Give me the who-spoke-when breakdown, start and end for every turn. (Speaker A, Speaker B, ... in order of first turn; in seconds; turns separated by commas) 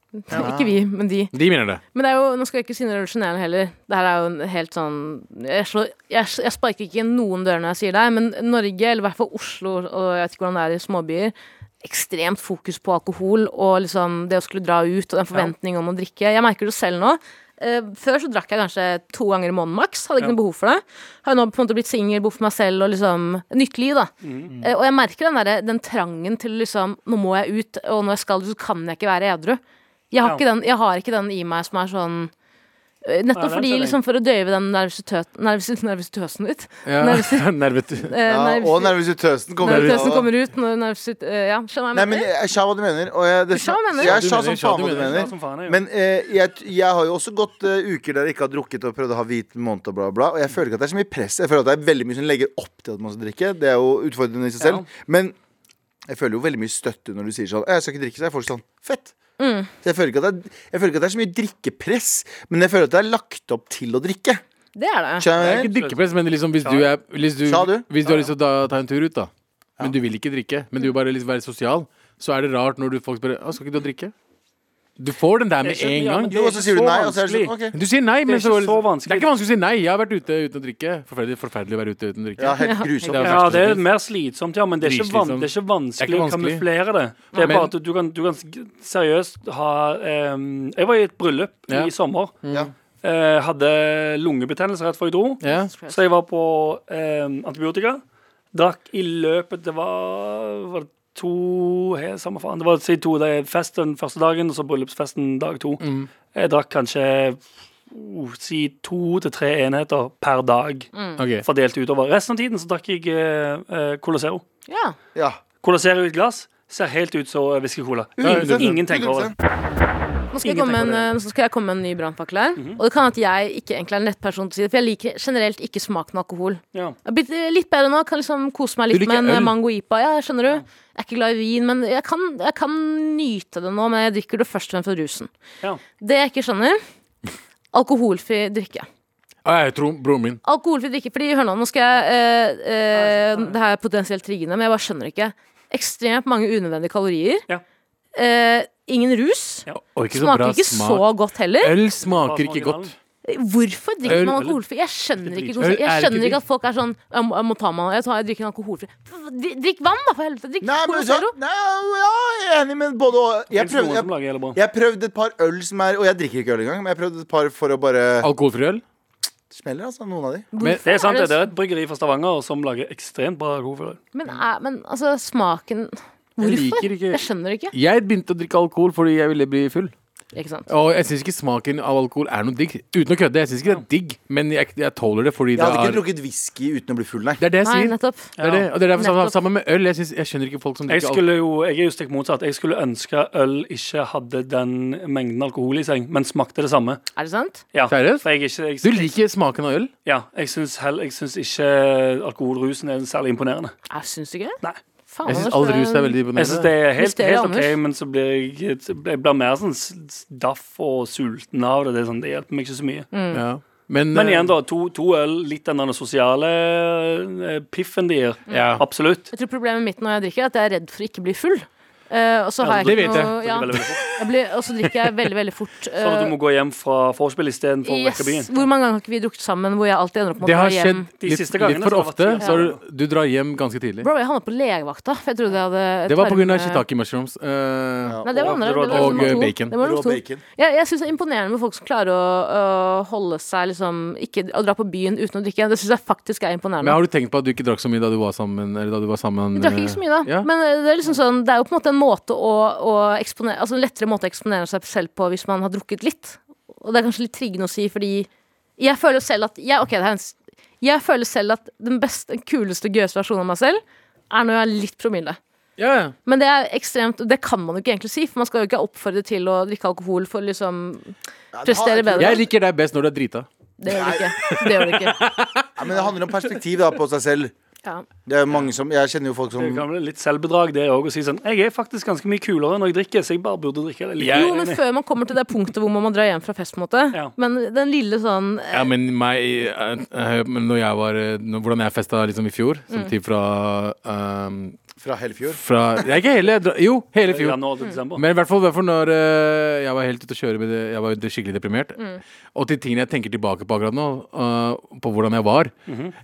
Speaker A: 0.2-1.3, Speaker B: 0.3-0.8, Speaker C: 1.3-1.8, Speaker A: 1.9-29.6, Speaker D: 24.2-24.5, Speaker A: 30.1-32.3, Speaker A: 33.0-37.5, Speaker D: 33.4-34.0, Speaker C: 36.9-38.2, Speaker A: 38.0-39.0, Speaker B: 38.3-40.3, Speaker A: 39.6-42.3, Speaker C: 39.6-40.2, Speaker B: 41.9-55.4, Speaker A: 43.5-44.2, Speaker C: 44.0-45.3, Speaker D: 44.8-45.8, Speaker D: 54.6-54.9, Speaker B: 56.1-59.1, Speaker A: 59.4-59.7, Speaker B: 59.8-64.4, Speaker A: 64.8-65.3, Speaker B: 65.2-65.7, Speaker C: 65.4-74.1, Speaker D: 65.4-66.0, Speaker D: 66.6-66.9, Speaker B: 67.4-67.9, Speaker D: 68.0-68.3, Speaker C: 75.0-76.3, Speaker D: 75.6-77.5, Speaker B: 76.3-77.8, Speaker C: 77.7-83.8, Speaker D: 78.3-79.3, Speaker B: 82.4-83.7, Speaker A: 82.6-82.9, Speaker D: 83.2-92.3, Speaker C: 84.8-86.6, Speaker C: 87.4-87.7, Speaker C: 92.4-92.7, Speaker D: 93.0-98.0, Speaker C: 95.4-95.7, Speaker A: 95.5-96.0, Speaker D: 98.5-105.8, Speaker C: 105.8-106.1, Speaker D: 106.3-110.9, Speaker A: 110.9-111.2, Speaker C: 111.2-111.5, Speaker D: 111.4-114.4, Speaker A: 114.7-115.0, Speaker B: 115.2-115.4, Speaker D: 115.6-119.3, Speaker B: 118.2-119.3, Speaker C: 118.2-118.7, Speaker A: 120.3-135.3, Speaker D: 120.4-121.1, Speaker D: 122.6-122.8, Speaker C: 128.9-129.6, Speaker A: 136.0-136.8, Speaker A: 137.7-138.9, Speaker C: 139.4-140.4, Speaker A: 140.4-147.4, Speaker D: 142.9-143.6, Speaker A: 148.2-151.8, Speaker C: 149.8-151.1, Speaker C: 151.6-152.9, Speaker D: 152.0-152.9, Speaker A: 153.2-161.3, Speaker C: 154.1-154.5, Speaker D: 154.1-154.6, Speaker D: 155.2-155.6, Speaker C: 155.6-156.4, Speaker B: 160.6-168.3, Speaker D: 163.5-164.6, Speaker C: 168.2-168.8, Speaker B: 169.5-170.5, Speaker A: 170.5-171.5, Speaker D: 170.9-174.0, Speaker A: 174.1-177.7, Speaker C: 176.4-179.9, Speaker A: 180.3-180.7, Speaker C: 180.7-186.0, Speaker B: 185.6-187.4, Speaker C: 187.4-191.2, Speaker A: 187.6-188.3, Speaker D: 188.4-188.7, Speaker A: 188.9-189.3, Speaker D: 190.9-197.0, Speaker A: 197.2-197.6, Speaker D: 197.7-199.1, Speaker C: 197.9-198.3, Speaker C: 198.8-199.9, Speaker D: 200.1-203.8, Speaker A: 203.9-204.6, Speaker A: 205.1-206.2, Speaker C: 205.3-206.7, Speaker D: 206.4-213.1, Speaker A: 207.0-207.8, Speaker A: 213.1-213.4, Speaker C: 213.3-214.5, Speaker D: 214.1-219.3, Speaker A: 218.5-226.3, Speaker C: 218.5-218.8, Speaker D: 222.6-224.1, Speaker C: 222.8-224.3, Speaker C: 224.9-225.1, Speaker D: 226.0-228.5, Speaker A: 227.8-231.1, Speaker C: 230.4-234.1, Speaker D: 231.2-232.8, Speaker A: 232.4-232.7, Speaker A: 234.0-236.8, Speaker C: 236.1-238.2, Speaker B: 238.0-238.6, Speaker A: 238.2-247.0, Speaker D: 238.4-239.5, Speaker C: 238.9-239.8, Speaker B: 239.8-240.4, Speaker C: 246.8-250.5, Speaker A: 249.6-265.4, Speaker C: 265.8-266.1, Speaker A: 266.3-272.4, Speaker B: 271.5-272.4, Speaker C: 272.2-273.5, Speaker A: 273.8-275.2, Speaker B: 273.9-274.3, Speaker C: 274.5-275.7, Speaker B: 275.8-277.5, Speaker B: 278.3-279.9, Speaker D: 279.6-284.8, Speaker C: 284.2-284.6, Speaker A: 284.3-288.9, Speaker C: 288.7-294.8, Speaker B: 295.0-296.1, Speaker C: 295.5-297.6, Speaker D: 297.2-298.2, Speaker C: 298.1-302.0, Speaker C: 302.6-305.7, Speaker D: 305.9-306.1